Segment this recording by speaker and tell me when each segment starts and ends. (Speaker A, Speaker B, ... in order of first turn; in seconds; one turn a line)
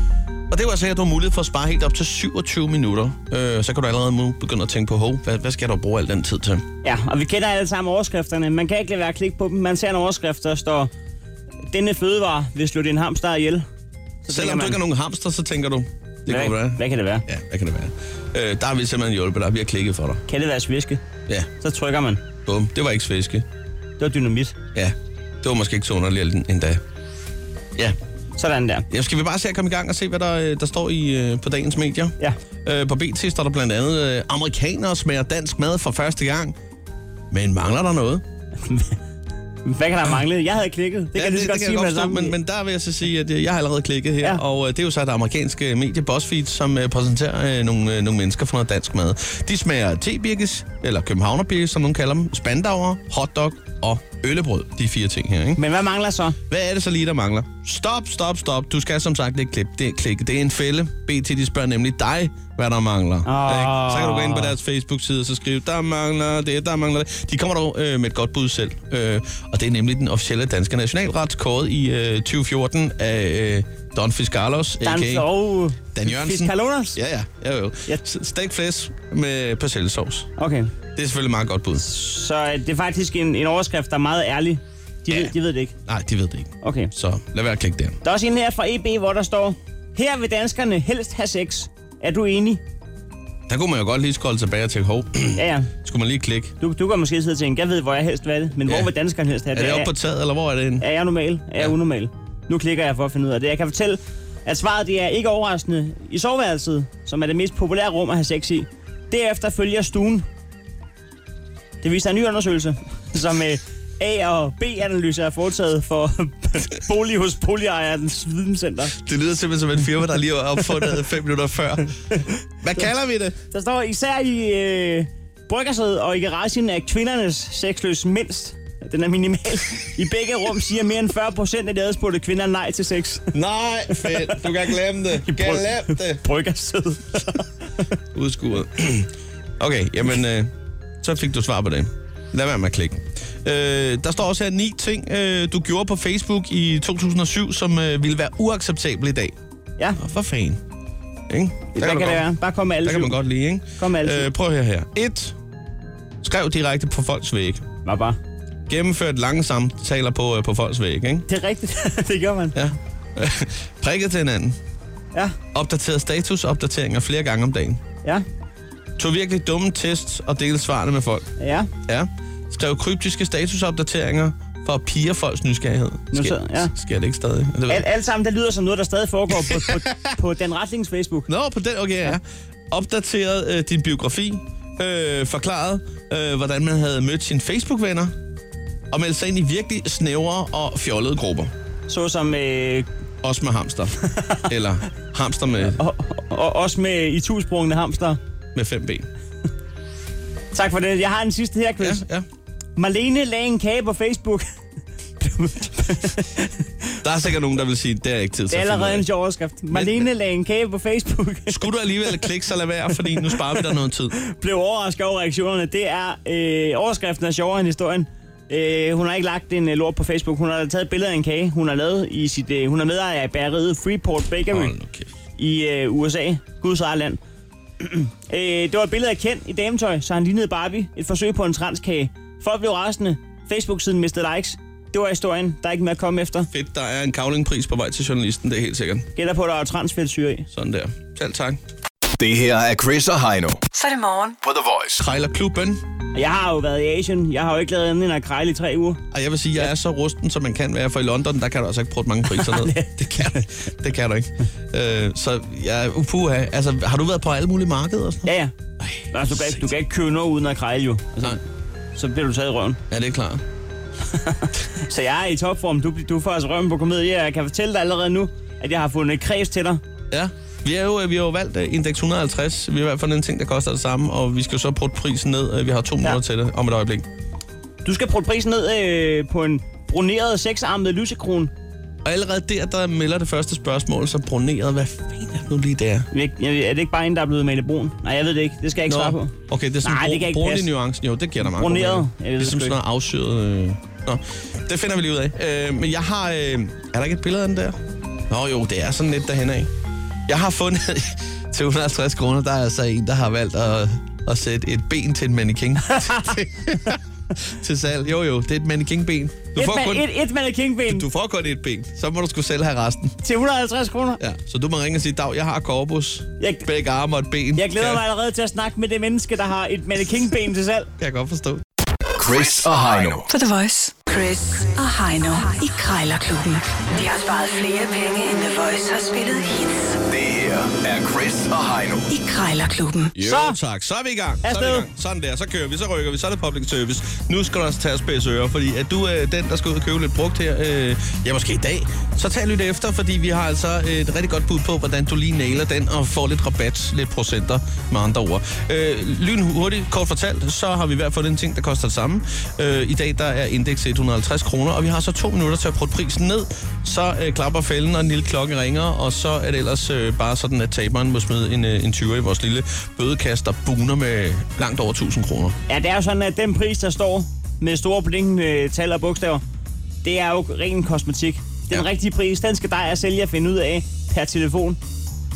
Speaker A: 0.5-6.6
Speaker B: 6.8-10.9
Speaker B: 11.7-13.6
Speaker B: 14.2-14.8
Speaker A: 14.3-20.2
Speaker B: 16.3-17.2
Speaker B: 20.3-21.0
Speaker B: 21.6-22.2
Speaker A: 22.4-23.4
Speaker B: 24.0-24.6
Speaker A: 24.7-26.8
Speaker B: 28.4-28.9
Speaker A: 28.9-36.5
Speaker A: 37.3-38.2
Speaker B: 38.6-39.0
Speaker B: 39.6-42.4
Speaker A: 41.1-55.6
Speaker B: 55.6-56.4
Speaker A: 56.5-75.3
Speaker B: 63.2-64.5
Speaker B: 74.8-77.0
Speaker A: 75.9-80.3
Speaker B: 80.4-80.7
Speaker A: 80.9-81.9
Speaker B: 81.8-85.7
Speaker A: 85.8-88.0
Speaker B: 86.6-86.9
Speaker B: 88.0-92.6
Speaker A: 93.5-96.5
Speaker B: 95.3-95.7
Speaker B: 96.6-99.9
Speaker A: 99.5-100.8
Speaker B: 100.8-110.2
Speaker B: 111.8-119.0
Speaker A: 119.0-122.0
Speaker A: 122.6-123.3
Speaker B: 123.5-133.3
Speaker A: 133.3-136.2
Speaker B: 133.9-134.5
Speaker B: 135.2-137.5
Speaker A: 138.1-149.3
Speaker A: 150.0-150.6
Speaker A: 151.3-152.2
Speaker B: 151.7-153.2
Speaker A: 152.8-155.3
Speaker B: 153.8-154.3
Speaker A: 156.2-157.6
Speaker B: 157.8-158.2
Speaker A: 158.7-161.2
Speaker B: 161.3-162.6
Speaker A: 162.5-164.6
Speaker A: 165.5-167.8
Speaker A: 169.0-171.3
Speaker B: 171.4-171.7
Speaker A: 171.8-177.8
Speaker B: 176.1-176.7
Speaker B: 177.7-181.3
Speaker A: 179.5-180.0
Speaker A: 181.3-188.1
Speaker A: 188.9-191.5
Speaker B: 191.9-192.9
Speaker A: 193.2-193.9
Speaker B: 194.1-194.4
Speaker A: 194.5-195.8
Speaker B: 195.6-198.2
Speaker A: 198.5-199.1
Speaker B: 200.5-202.0
Speaker A: 201.8-202.2
Speaker B: 202.8-204.4
Speaker B: 205.2-207.0
Speaker A: 207.0-209.0
Speaker B: 208.5-212.2
Speaker A: 209.7-210.1
Speaker A: 211.5-214.1
Speaker B: 213.2-224.7
Speaker A: 224.5-225.1
Speaker B: 225.4-227.2
Speaker B: 227.8-236.5
Speaker A: 236.5-239.1
Speaker B: 239.2-240.5
Speaker A: 240.5-241.6
Speaker C: 242.2-243.6
Speaker D: 243.7-244.4
Speaker C: 244.4-245.0
Speaker A: 245.0-245.8
Speaker B: 246.1-249.0
Speaker A: 249.1-259.7
Speaker B: 252.3-253.4
Speaker B: 258.2-258.5
Speaker B: 259.1-261.4
Speaker B: 261.9-262.8
Speaker A: 262.9-263.4
Speaker B: 264.1-269.8
Speaker A: 270.1-277.1
Speaker B: 277.8-281.5
Speaker A: 282.0-286.1
Speaker B: 286.1-289.3
Speaker A: 288.9-297.8
Speaker B: 289.8-290.7
Speaker B: 291.4-292.8
Speaker A: 298.3-299.7
Speaker A: 300.3-310.1
Speaker B: 305.9-306.3
Speaker B: 309.6-311.1
Speaker A: 310.9-313.1
Speaker B: 313.2-314.2
Speaker A: 314.2-318.0
Speaker B: 316.4-316.7
Speaker B: 317.6-320.9
Speaker A: 321.0-321.6
Speaker C: 322.2-323.3
Speaker D: 323.3-330.0
Speaker C: 330.1-332.1
Speaker D: 332.1-333.1
Speaker A: 333.2-365.6
Speaker B: 333.2-333.6
Speaker B: 334.4-334.9
Speaker B: 365.7-369.4
Speaker B: 370.0-374.8